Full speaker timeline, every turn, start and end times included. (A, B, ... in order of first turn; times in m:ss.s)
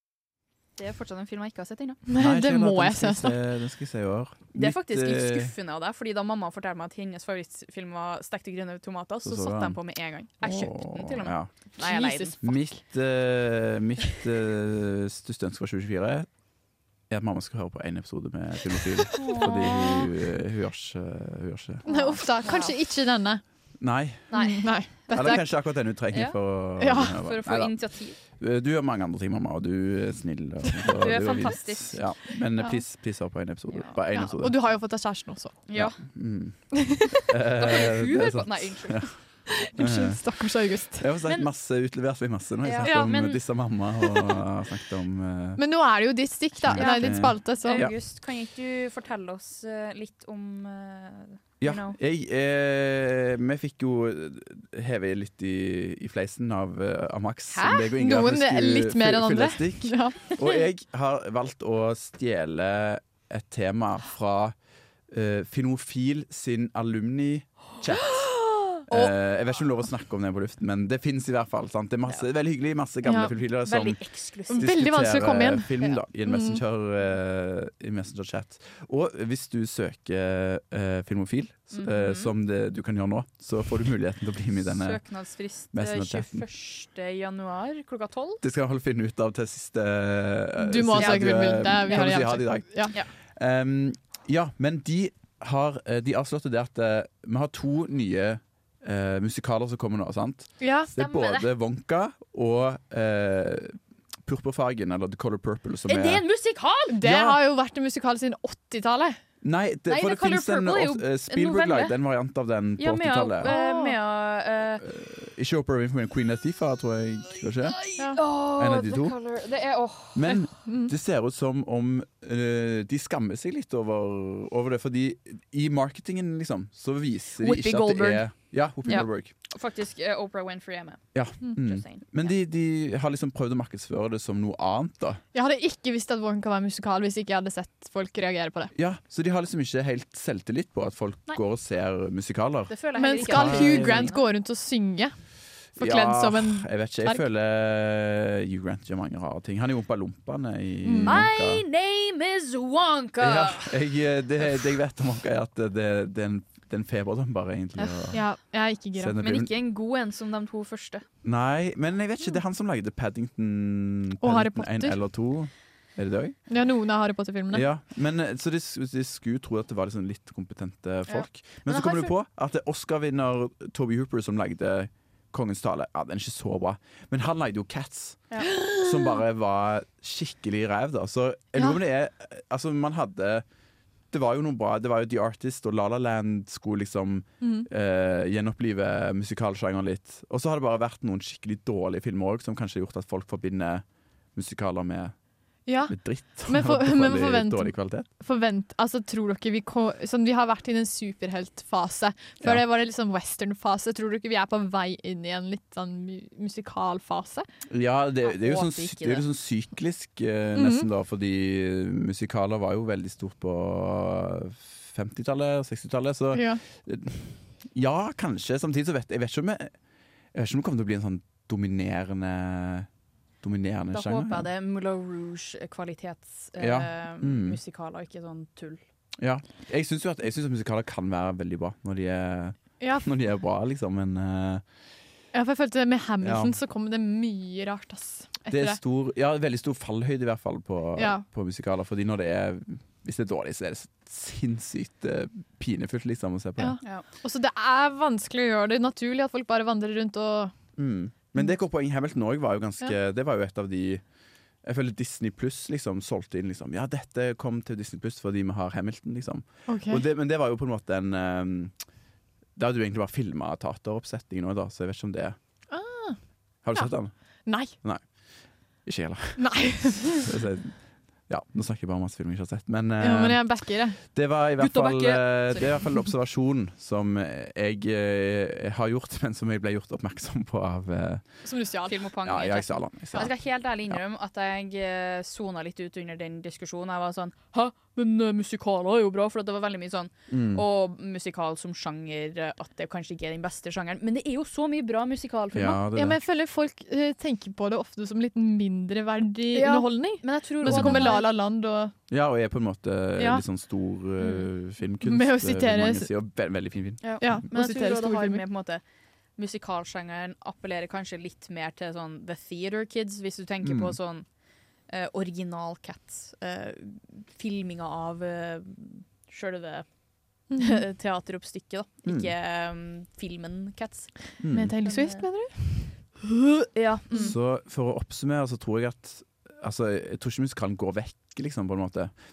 0:00.8-0:02.0 A
0:02.1-0:03.4 B
0:02.2-0:05.5 C
0:04.5-0:12.4 A
0:09.2-0:09.8 C
0:10.4-0:11.5 C
0:11.8-0:12.6 B
0:12.4-0:16.3 C
0:17.1-0:21.8 C
0:19.1-0:20.1 A
0:21.8-0:22.7 A
0:21.8-0:23.4 B
0:23.8-0:24.3 C
0:24.3-0:25.1 A
0:24.3-0:25.4 B
0:25.1-0:34.6 C
0:26.8-0:27.2 B
0:27.2-0:28.2 A
0:30.8-0:32.1 A
0:33.7-0:33.9 A
0:34.1-0:35.6 B
0:35.7-0:36.0 A
0:35.7-0:39.2 C
0:36.8-0:37.1 B
0:37.6-0:39.1 A
0:39.5-0:41.0 B
0:39.8-0:40.2 C
0:41.0-0:45.6 C
0:42.6-0:43.4 A
0:42.8-0:43.2 B
0:45.6-0:47.9 B
0:46.6-0:48.0 C
0:46.7-0:52.0 A
0:51.6-1:04.5 C
0:57.5-0:57.8 A
0:57.9-1:00.3 B
1:05.1-1:08.3 C
1:08.9-1:14.0 C
1:13.0-1:13.3 B
1:13.6-1:14.7 A
1:14.5-1:16.6 B
1:14.5-1:25.0 C
1:21.7-1:22.3 A
1:24.6-1:28.4 A
1:25.7-1:26.4 C
1:28.4-1:46.2 C
1:30.6-1:32.9 B
1:31.0-1:32.1 A
1:40.6-1:40.9 B
1:41.0-1:41.5 A
1:45.9-1:47.0 A
1:46.9-1:49.2 B
1:47.0-1:47.4 C
1:49.4-1:53.5 C
1:49.9-1:52.0 A
1:52.8-1:54.8 A
1:53.4-1:54.0 B
1:54.8-1:57.8 C
1:57.6-2:00.4 A
1:58.5-1:59.2 C
2:00.1-2:09.3 C
2:00.6-2:00.9 B
2:07.4-2:08.2 A
2:08.8-2:12.3 A
2:11.1-2:15.2 C
2:15.3-2:18.7 B
2:18.7-2:24.1 C
2:22.7-2:24.2 A
2:23.0-2:25.2 B
2:25.8-2:27.2 B
2:25.8-2:31.6 C
2:30.8-2:31.3 B
2:31.0-2:33.8 A
2:33.2-2:38.2 C
2:37.8-2:38.1 A
2:38.1-2:39.2 B
2:39.0-2:39.5 C
2:39.2-2:41.0 A
2:41.2-2:46.4 C
2:44.2-2:45.0 B
2:46.5-2:47.6 B
2:47.5-3:03.4 C
2:51.1-2:52.1 A
2:58.5-2:58.9 B
3:04.1-3:15.1 C
3:07.4-3:07.7 B
3:15.6-3:27.5 B
3:15.9-3:18.1 C
3:27.7-3:39.7 C
3:28.2-3:29.2 A
3:30.6-3:30.9 B
3:36.3-3:36.6 B
3:40.3-3:42.9 C
3:43.4-3:44.5 C
3:43.9-3:48.8 A
3:46.6-3:47.6 C
3:49.2-3:54.6 C
3:52.8-3:53.0 B
3:55.3-3:58.8 B
3:56.2-3:56.6 C
3:58.5-4:06.8 C
4:01.0-4:01.2 B
4:06.6-4:10.5 B
4:10.8-4:14.0 C
4:14.6-4:21.7 C
4:19.7-4:20.0 B
4:22.6-4:25.4 C
4:25.7-4:26.2 B
4:26.6-4:41.2 C
4:27.4-4:27.8 B
4:29.4-4:30.3 B
4:33.0-4:34.0 B
4:34.6-4:35.8 A
4:41.4-4:42.0 B
4:41.9-4:55.8 A
4:42.2-4:43.3 C
4:50.3-4:50.6 C
4:55.5-4:56.2 C
4:55.9-5:01.9 B
4:59.5-5:01.2 A
5:00.6-5:01.2 C
5:02.1-5:07.4 C
5:03.2-5:03.4 B
5:04.2-5:04.5 A
5:05.0-5:06.1 B
5:07.0-5:08.8 A
5:07.2-5:08.4 B
5:09.4-5:14.2 A
5:13.6-5:14.0 C
5:14.9-5:19.8 A
5:20.5-5:20.8 B
5:20.6-5:25.2 A
5:22.0-5:22.3 C
5:24.4-5:24.7 C
5:24.5-5:25.9 B
5:26.7-5:27.3 A
5:27.2-5:32.1 C